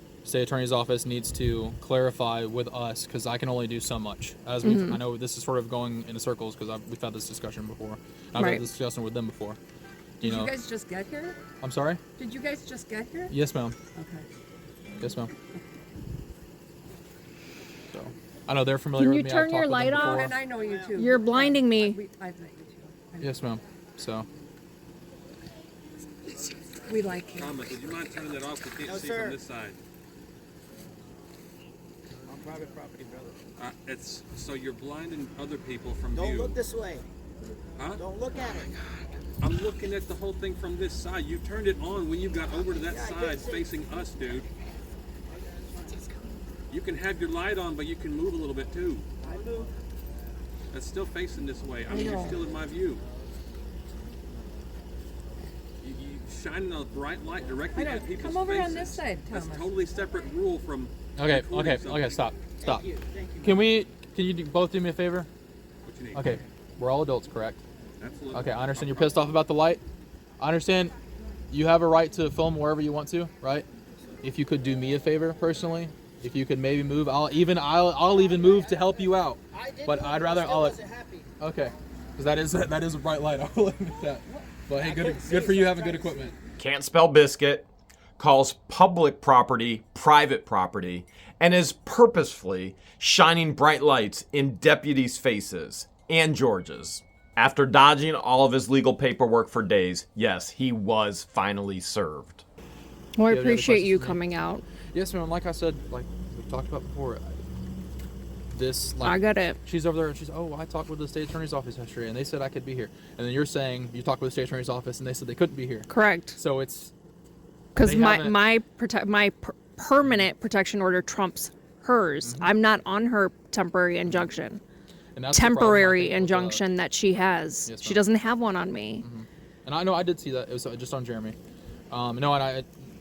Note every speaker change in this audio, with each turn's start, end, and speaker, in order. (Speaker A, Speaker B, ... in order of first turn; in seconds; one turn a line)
Speaker A: 0.2-9.6
Speaker B: 4.6-5.0
Speaker B: 8.3-8.6
Speaker A: 10.2-10.5
Speaker C: 10.2-11.4
Speaker A: 11.6-12.0
Speaker C: 12.2-13.3
Speaker A: 13.3-13.8
Speaker C: 13.9-14.2
Speaker A: 15.0-15.3
Speaker A: 17.9-20.4
Speaker B: 19.0-20.4
Speaker C: 19.9-23.3
Speaker D: 20.6-20.9
Speaker B: 20.9-22.0
Speaker A: 23.2-24.3
Speaker C: 26.9-27.6
Speaker E: 27.3-29.8
Speaker D: 28.8-29.4
Speaker D: 32.3-33.4
Speaker E: 33.6-36.6
Speaker D: 36.2-37.0
Speaker E: 37.8-38.7
Speaker D: 38.0-38.7
Speaker E: 39.4-44.5
Speaker D: 42.9-43.6
Speaker E: 46.7-49.1
Speaker E: 50.7-53.0
Speaker C: 51.9-52.4
Speaker E: 55.8-62.3
Speaker C: 57.8-59.7
Speaker A: 61.2-62.9
Speaker D: 62.6-63.6
Speaker A: 63.4-65.3
Speaker E: 65.9-66.4
Speaker A: 66.1-67.6
Speaker E: 68.0-69.2
Speaker A: 68.3-69.8
Speaker A: 70.4-70.9
Speaker A: 71.5-73.7
Speaker A: 74.2-80.8
Speaker D: 79.5-81.3
Speaker A: 81.4-86.3
Speaker D: 84.8-86.4
Speaker F: 86.6-87.7
Speaker F: 88.2-102.4
Speaker B: 103.2-104.6
Speaker A: 103.3-104.2
Speaker A: 104.9-107.4
Speaker A: 108.5-116.9
Speaker B: 109.0-109.6
Speaker B: 115.9-116.4
Speaker B: 117.7-124.6
Speaker A: 117.8-118.5
Speaker A: 125.1-126.6
Speaker B: 125.3-129.1
Speaker A: 127.7-128.0
Speaker A: 129.0-131.4
Speaker A: 131.9-132.7